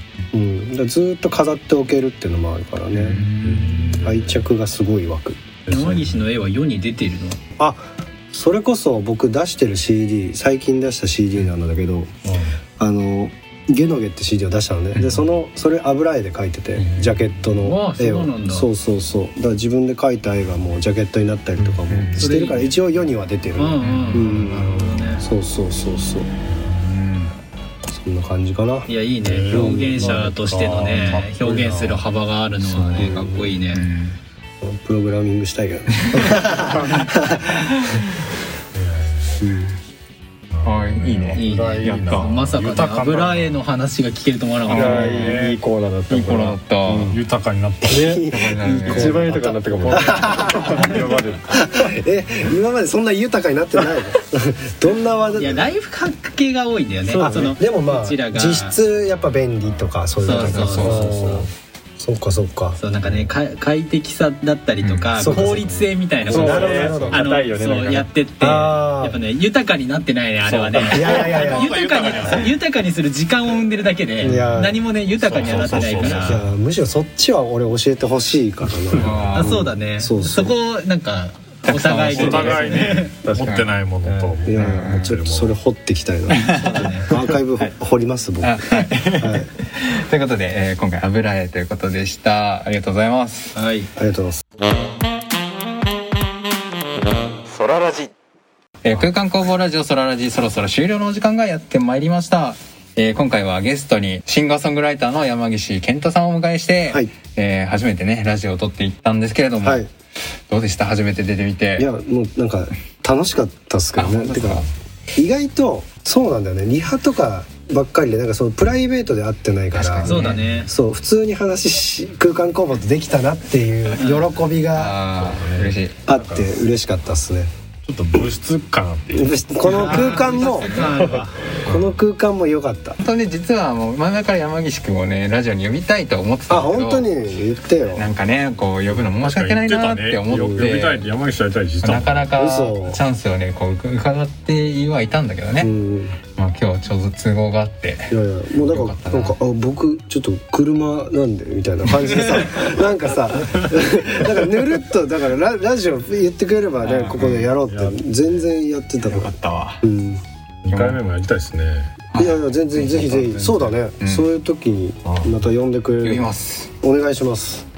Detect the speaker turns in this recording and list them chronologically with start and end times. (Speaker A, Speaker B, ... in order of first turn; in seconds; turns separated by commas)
Speaker A: 0.3-3.3, Speaker B: 3.0-4.1, Speaker C: 3.1-4.5, Speaker A: 4.0-5.4, Speaker C: 5.7-6.3, Speaker D: 5.7-7.4, Speaker A: 7.6-12.1, Speaker C: 12.2-12.6, Speaker A: 12.8-26.3, Speaker B: 14.9-15.2, Speaker B: 16.8-17.3, Speaker D: 17.6-18.7, Speaker B: 21.9-22.3, Speaker D: 22.2-22.8, Speaker D: 23.6-25.3, Speaker B: 23.8-24.1, Speaker C: 24.1-25.1, Speaker B: 26.7-27.3, Speaker A: 27.9-28.9, Speaker D: 28.9-33.9, Speaker C: 29.2-32.0, Speaker A: 29.4-30.2, Speaker C: 32.6-33.1, Speaker A: 33.0-33.5, Speaker B: 33.7-34.2, Speaker A: 34.6-37.7, Speaker C: 36.6-37.1, Speaker C: 38.7-39.4, Speaker A: 39.4-39.8, Speaker C: 40.5-43.6, Speaker B: 40.6-42.4, Speaker D: 41.4-45.4, Speaker B: 44.7-45.5, Speaker C: 44.7-45.6, Speaker E: 44.7-47.2, Speaker B: 46.1-47.2, Speaker C: 47.1-48.2, Speaker A: 47.9-51.0, Speaker B: 48.3-49.5, Speaker E: 48.8-51.4, Speaker C: 49.8-51.6, Speaker A: 51.5-55.7, Speaker D: 55.3-58.8, Speaker A: 57.1-62.8, Speaker D: 60.2-61.2, Speaker B: 60.3-61.1, Speaker C: 60.8-61.5, Speaker D: 62.8-76.4, Speaker B: 64.8-65.2, Speaker A: 65.2-67.3, Speaker C: 65.3-65.6, Speaker C: 66.3-67.2, Speaker E: 66.3-68.1, Speaker A: 68.4-69.2, Speaker C: 70.4-72.6, Speaker A: 70.8-71.8, Speaker A: 74.2-74.8, Speaker C: 74.3-76.5, Speaker A: 75.4-80.6, Speaker C: 78.9-79.3, Speaker B: 78.9-79.6, Speaker D: 79.3-83.1, Speaker B: 81.6-83.7, Speaker C: 82.1-85.6, Speaker A: 84.5-89.5, Speaker B: 84.5-85.1, Speaker B: 86.3-86.8, Speaker D: 86.4-87.2, Speaker B: 88.4-93.5, Speaker D: 93.5-93.9, Speaker A: 94.0-94.4, Speaker B: 98.8-109.9, Speaker A: 109.6-109.9, Speaker B: 110.5-111.9, Speaker A: 111.8-125.0, Speaker B: 114.0-114.7, Speaker B: 119.8-120.6, Speaker D: 120.0-120.7, Speaker D: 124.0-124.3, Speaker B: 124.7-126.0, Speaker C: 125.2-126.5, Speaker A: 126.1-127.5, Speaker C: 127.9-131.9, Speaker A: 129.1-130.7, Speaker D: 129.6-131.4, Speaker A: 131.6-133.0, Speaker B: 133.0-137.1, Speaker A: 136.5-138.1, Speaker B: 137.9-141.1, Speaker C: 138.9-142.3, Speaker B: 141.8-145.7, Speaker A: 142.4-143.0, Speaker A: 145.6-146.2, Speaker B: 146.3-149.3, Speaker A: 148.1-160.2, Speaker B: 156.8-157.5, Speaker C: 157.7-158.1, Speaker B: 159.0-159.8, Speaker C: 160.7-162.0, Speaker B: 160.7-161.0, Speaker B: 162.1-164.3, Speaker A: 162.2-167.7, Speaker C: 165.1-165.4, Speaker B: 166.0-166.7